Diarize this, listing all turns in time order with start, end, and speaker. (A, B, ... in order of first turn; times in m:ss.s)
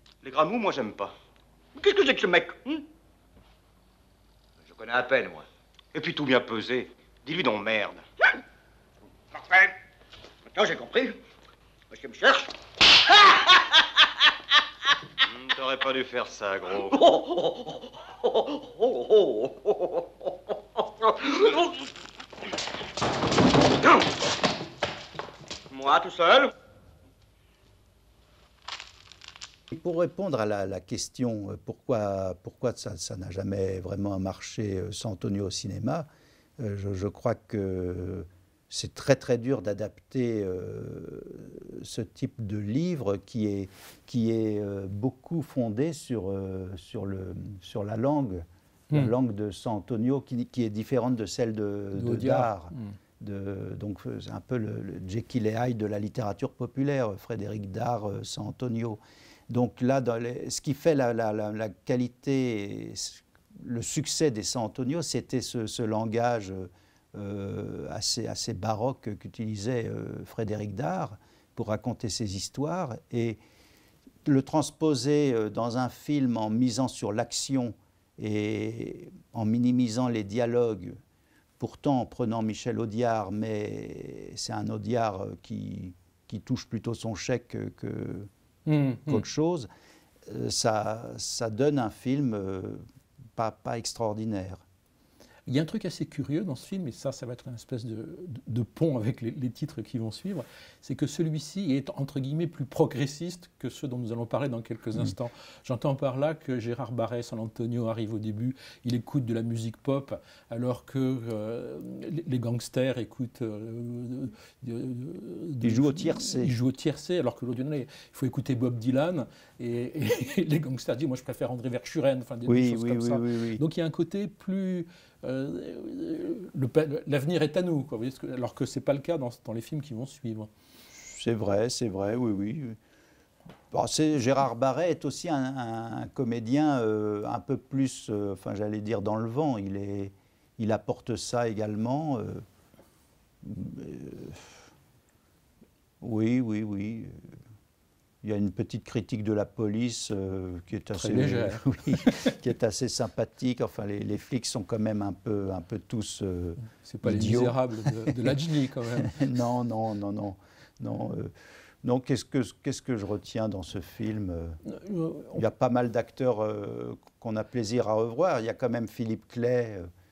0:00.2-0:01.1 A
0:01.8-0:02.8 B
0:04.6-0:08.0 A
0:10.5-0:11.2 B
0:11.9-0:12.5 B
0:13.1-0:13.8 B
0:15.2-0:17.0 A
0:16.9-0:21.7 B
0:25.7-0:26.5 B
0:29.7-0:36.1 C
0:36.6-1:13.4 C
0:51.9-0:53.0 D
1:14.2-1:21.0 C
1:21.6-1:28.3 C
1:28.6-1:29.2 D
1:29.1-1:29.7 C
1:30.3-1:32.8 C
1:33.4-1:34.6 C
1:35.5-2:10.5 D
1:55.6-1:56.5 C
2:02.4-2:03.6 C
2:10.9-2:12.8 C
2:13.7-2:22.4 C
2:23.4-2:24.5 C
2:26.0-2:27.3 C
2:28.2-2:38.4 C
2:30.9-2:32.2 D
2:36.7-2:39.2 D
2:39.0-2:44.6 C
2:44.6-2:45.4 D
2:45.3-2:49.9 C